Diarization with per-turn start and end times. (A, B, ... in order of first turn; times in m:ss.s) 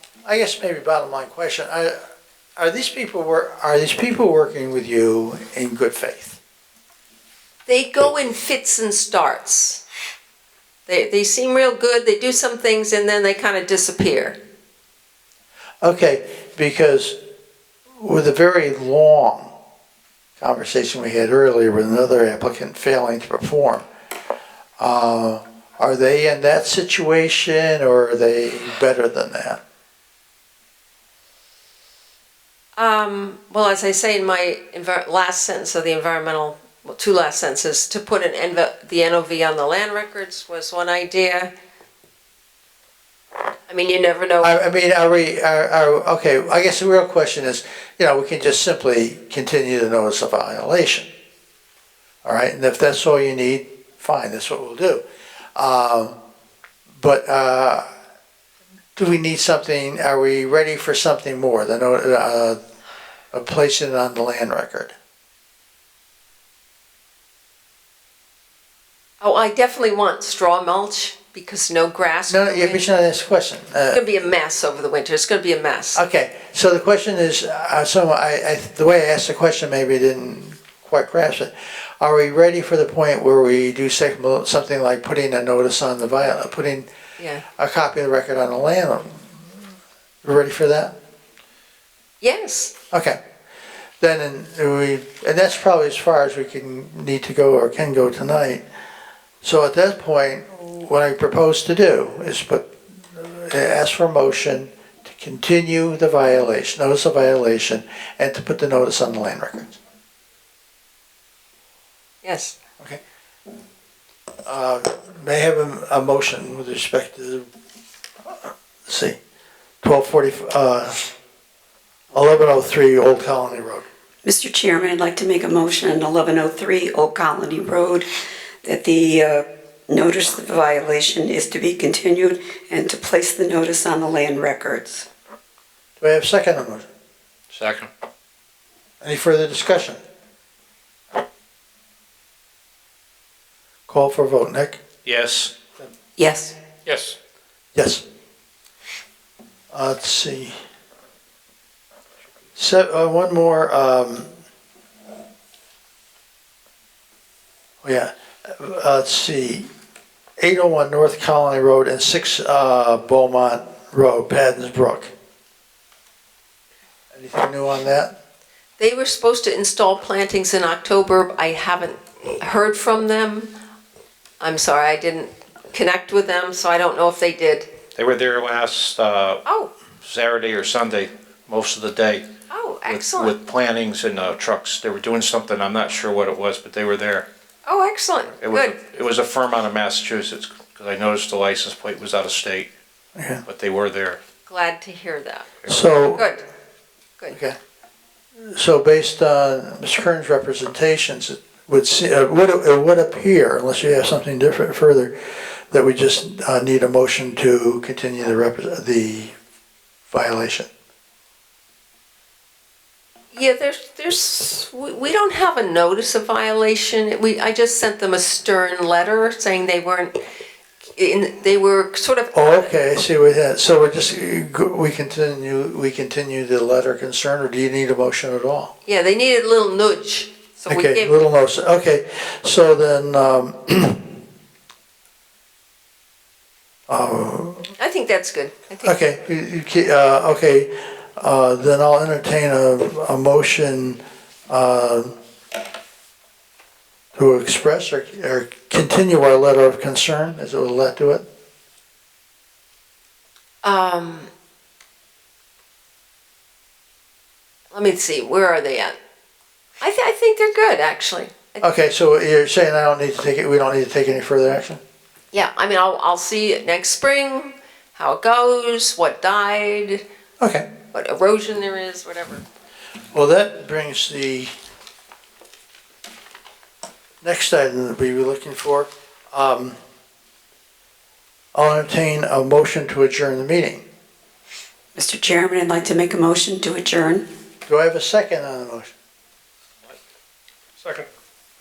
0:00.2-0:02.0 A
0:02.6-0:06.4 A
0:07.7-0:09.8 B
0:10.9-0:14.4 B
0:15.8-0:17.2 A
0:18.0-0:19.5 A
0:20.4-0:23.8 A
0:24.8-0:29.6 A
0:32.8-0:41.5 B
0:43.7-0:44.5 B
0:44.4-0:51.1 A
0:52.2-0:55.0 A
0:55.6-0:56.1 A
0:57.0-0:57.9 A
0:59.0-1:02.6 A
1:03.3-1:04.9 A
1:09.2-1:12.9 B
1:12.3-1:14.0 A
1:13.9-1:16.0 B
1:15.9-1:26.9 A
1:27.2-1:27.4 B
1:27.6-1:29.5 A
1:30.2-1:31.0 A
1:32.2-1:32.7 B
1:32.9-1:33.2 A
1:34.0-1:38.6 A
1:39.4-1:49.7 A
1:52.2-1:52.5 B
1:54.4-1:57.5 A
1:58.3-1:59.2 A
1:59.8-2:01.0 A
2:02.1-2:03.8 A
2:04.2-2:08.1 C
2:08.6-2:15.1 C
2:16.0-2:16.9 A
2:17.5-2:17.9 D
2:19.0-2:20.0 A
2:23.9-2:24.8 A
2:25.0-2:25.5 D
2:26.2-2:26.5 B
2:26.8-2:27.2 D
2:27.7-2:28.0 A
2:29.7-2:30.5 A
2:32.6-2:34.3 A
2:37.8-2:39.7 A
2:40.4-2:45.1 A
2:47.1-2:48.1 A
2:48.8-2:53.5 B
2:54.4-2:57.7 B
2:58.0-2:59.4 D
2:59.4-2:59.7 B
3:00.0-3:02.3 D
3:02.5-3:03.3 B
3:02.8-3:07.3 D
3:07.6-3:08.8 B
3:08.4-3:12.7 D
3:13.2-3:13.4 A
3:13.4-3:14.2 D
3:14.5-3:15.6 B
3:15.7-3:16.2 A
3:17.3-3:17.6 A
3:18.4-3:25.2 A
3:25.7-3:29.3 A
3:30.1-3:30.7 A
3:33.3-3:40.2 B
3:41.0-3:42.7 B
3:42.3-3:48.7 A
3:48.8-3:51.2 B
3:50.7-3:54.1 A
3:56.9-3:57.7 A
3:57.8-3:59.0 B
3:58.8-4:05.1 A
4:07.1-4:11.2 A
4:13.6-4:14.3 B
4:17.7-4:18.9 B
4:19.8-4:21.6 B
4:21.6-4:24.8 A
4:25.3-4:30.0 B
4:30.4-4:30.7 A
4:30.9-4:32.4 B
4:33.1-4:34.5 A
4:37.2-4:39.8 A
4:41.5-4:43.8 A
4:44.9-4:47.2 C
4:47.7-4:48.9 A